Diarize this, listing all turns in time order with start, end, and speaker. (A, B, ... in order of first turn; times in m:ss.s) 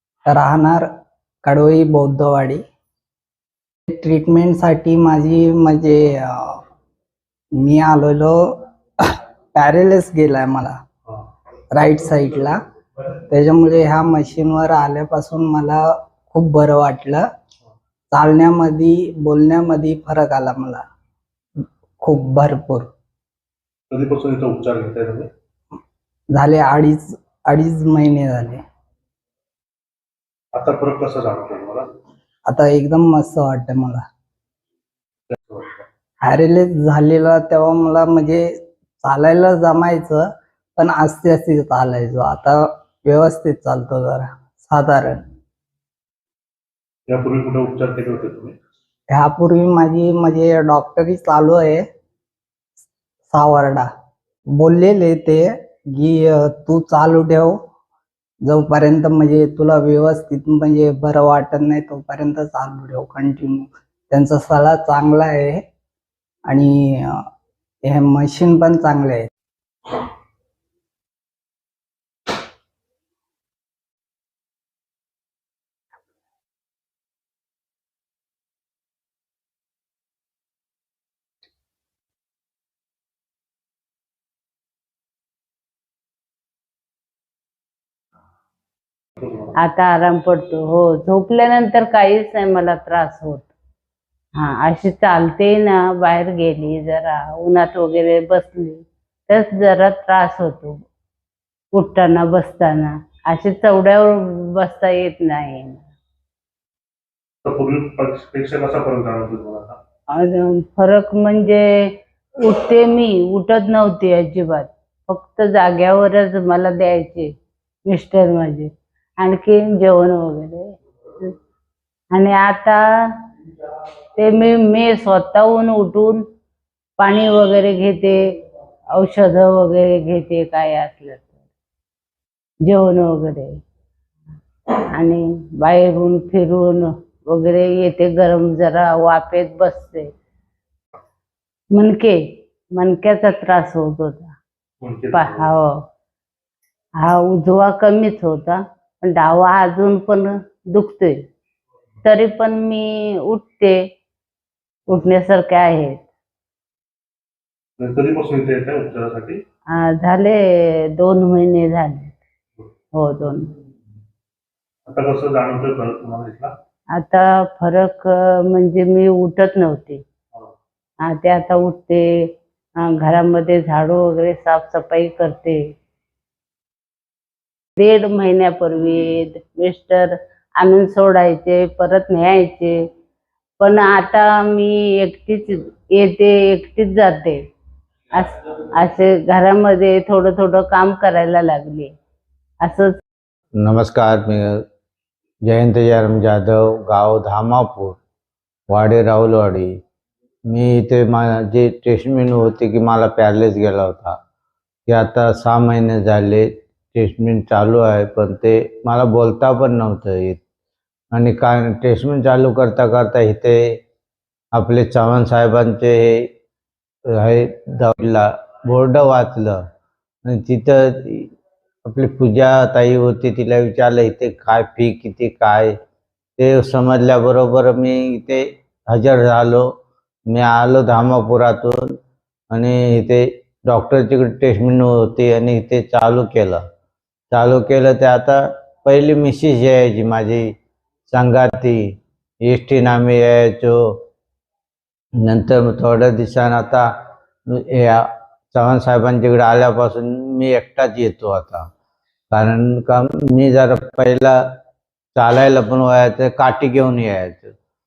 0:00.2-0:00.9 A
0:01.4-0:02.6 A
0:03.9-0:06.6 A
0:07.6-0:08.5 A
0:09.5-0:10.8 A
0:11.7-0:12.6 A
0:13.3-0:17.2 A
0:18.1-0:20.8 A
0:22.0-0:22.9 A
0:23.9-0:25.3 B
0:26.3-0:28.6 A
0:30.5-0:31.8 B
0:32.5-0:34.0 A
0:35.3-0:35.8 B
0:36.2-0:45.2 A
0:47.1-0:48.6 B
0:49.1-0:51.8 A
0:53.3-0:53.9 A
0:54.5-0:57.6 A
0:58.4-1:05.6 A
1:06.4-1:07.2 A
1:07.8-1:09.3 A
1:29.2-1:29.5 B
1:29.6-1:33.5 C
1:34.4-1:40.8 C
1:41.7-1:45.9 C
1:47.4-1:49.8 B
1:50.1-1:57.3 C
1:57.8-2:01.3 C
2:02.1-2:02.8 C
2:04.2-2:06.2 C
2:07.0-2:08.2 C
2:08.9-2:11.4 C
2:12.6-2:13.6 C
2:14.9-2:20.1 C
2:21.7-2:22.2 C
2:22.7-2:24.4 C
2:24.8-2:25.5 B
2:25.1-2:25.7 C
2:27.0-2:31.2 C
2:32.0-2:33.8 C
2:34.9-2:36.1 C
2:37.8-2:39.4 B
2:39.7-2:40.4 C
2:40.9-2:42.2 C
2:42.9-2:43.5 C
2:44.8-2:46.5 B
2:46.9-2:50.0 C
2:51.0-2:55.7 C
2:57.8-3:02.8 C
3:03.6-3:07.4 C
3:08.1-3:11.9 C
3:12.6-3:13.0 C
3:13.6-3:14.6 D
3:15.4-3:18.0 D
3:18.7-3:19.8 D
3:20.5-3:24.2 D
3:24.9-3:30.4 D
3:31.1-3:33.8 D
3:34.5-3:36.3 D
3:37.1-3:39.6 D
3:40.2-3:41.3 D
3:41.8-3:45.7 D
3:46.4-3:49.7 D
3:50.3-3:51.8 D
3:52.5-3:56.6 D
3:57.3-4:00.5 D
4:01.1-4:01.8 D
4:02.4-4:03.8 D
4:05.2-4:06.8 D
4:07.5-4:11.6 D
4:12.3-4:14.4 D
4:15.2-4:17.5 D